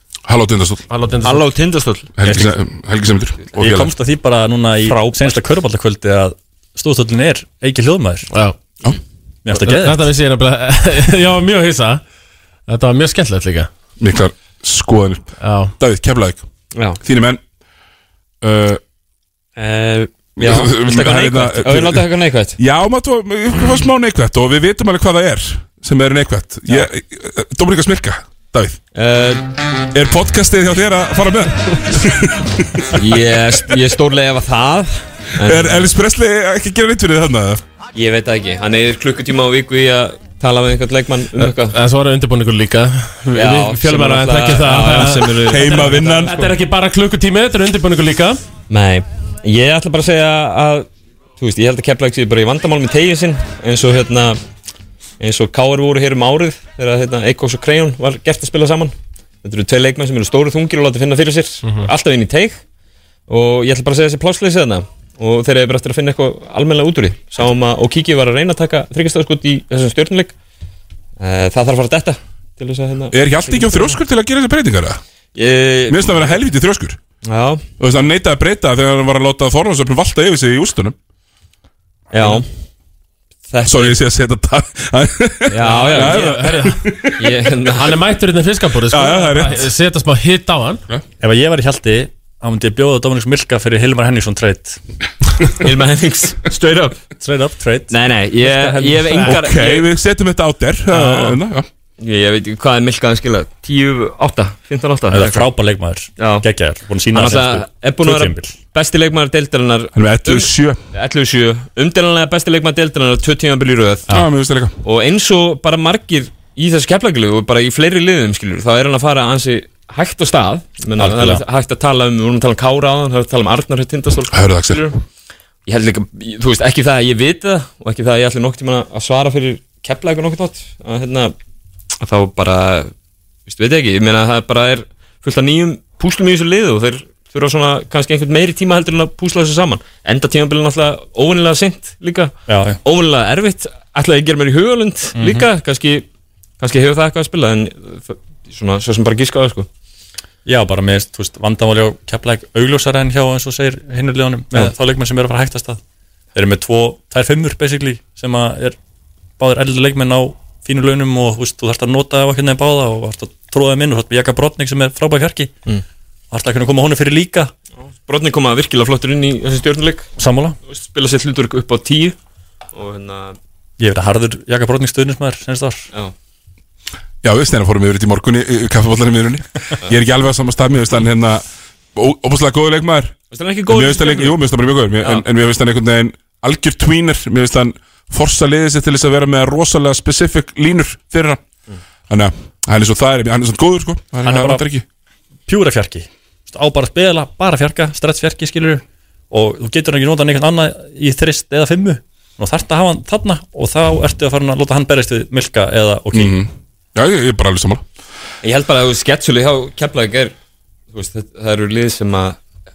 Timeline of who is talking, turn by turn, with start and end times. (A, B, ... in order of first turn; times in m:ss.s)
0:00.3-0:00.9 A
0:00.9-0:01.4 B
0:01.2-0:02.5 C
0:02.2-0:03.9 A
0:03.6-0:08.3 D
0:04.9-0:05.4 C
0:09.4-0:10.0 D
0:09.5-0:12.0 B
0:12.7-0:13.7 B
0:14.0-0:16.4 A
0:15.4-0:15.7 B
0:17.0-0:17.4 A
0:18.4-0:18.8 A
0:19.6-0:22.6 C
0:20.4-0:22.0 A
0:20.4-0:20.7 D
0:22.6-0:28.8 A
0:28.9-0:29.4 C
0:29.9-0:33.1 A
0:32.9-0:35.9 C
0:35.4-0:37.6 A
0:37.9-0:41.8 C
0:41.7-0:48.4 B
0:43.3-0:46.5 C
0:45.4-0:46.3 A
0:48.7-0:50.9 C
0:51.4-0:54.4 C
0:55.2-1:02.6 C
1:03.3-1:10.3 C
1:11.2-1:14.0 C
1:13.1-1:15.0 A
1:15.3-1:16.3 C
1:15.9-1:17.0 A
1:17.2-1:17.6 C
1:17.8-1:20.9 A
1:22.1-1:22.4 C
1:23.5-1:24.0 C
1:23.6-1:27.2 A
1:25.5-1:26.4 C
1:25.9-1:26.8 B
1:27.2-1:28.0 C
1:27.8-1:30.8 B
1:28.9-1:29.7 A
1:31.2-1:34.8 D
1:35.6-1:37.0 C
1:37.2-1:39.3 D
1:37.9-1:39.9 C
1:39.2-1:41.7 A
1:40.9-1:41.4 D
1:42.0-1:45.5 C
1:45.1-1:48.6 D
1:46.2-1:46.5 C
1:47.1-1:54.2 C
1:49.9-1:50.8 A
1:54.1-1:54.7 A
1:54.8-2:04.9 C
2:01.0-2:01.4 D
2:04.3-2:04.9 A
2:05.6-2:11.3 C
2:12.0-2:12.9 C
2:13.5-2:26.0 C
2:22.5-2:22.8 D
2:25.1-2:25.4 D
2:26.6-2:29.7 C
2:30.4-2:35.8 D
2:36.3-2:38.8 D
2:39.4-2:45.5 D
2:46.3-2:47.5 D
2:47.8-2:50.1 C
2:50.2-2:50.6 D
2:50.7-2:52.2 C
2:52.7-2:53.4 C
2:53.8-2:55.9 D
2:57.2-3:01.4 A
3:01.9-3:03.2 A
3:03.3-3:04.4 C
3:03.7-3:11.4 A
3:12.1-3:14.8 A
3:14.2-3:14.6 D
3:15.5-3:26.4 D
3:26.1-3:27.8 A
3:28.4-3:30.3 C
3:30.9-3:32.4 C